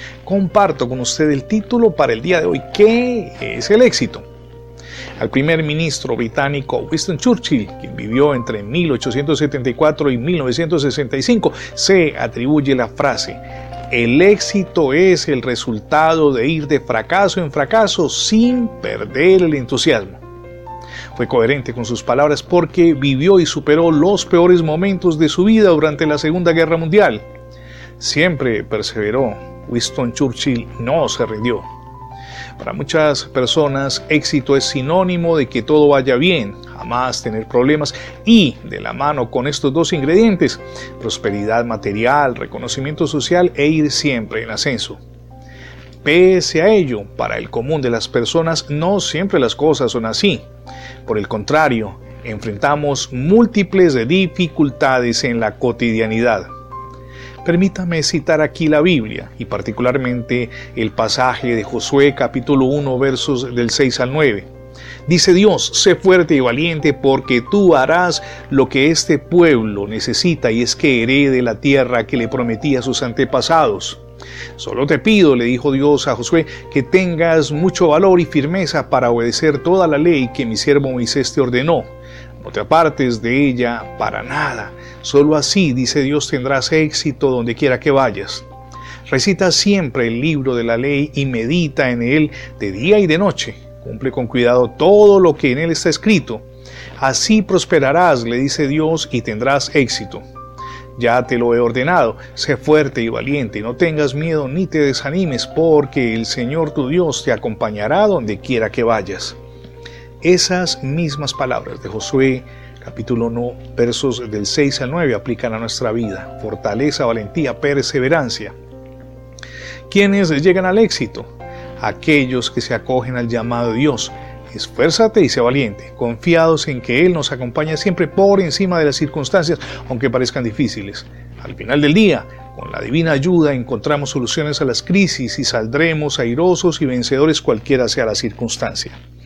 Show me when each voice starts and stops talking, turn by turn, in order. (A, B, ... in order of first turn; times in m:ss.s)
0:00.2-0:04.2 A
0:05.2-0:20.2 A
0:21.2-0:27.2 A
0:28.0-0:31.7 A
0:32.6-0:45.0 A
0:46.0-0:50.4 A
0:51.1-0:56.5 A
0:57.4-1:04.5 A
1:05.1-1:14.0 A
1:14.6-1:21.9 A
1:22.4-1:28.5 A
1:29.1-1:36.4 A
1:37.0-1:40.2 A
1:41.0-1:49.4 A
1:50.2-1:58.6 A
1:59.9-2:19.0 A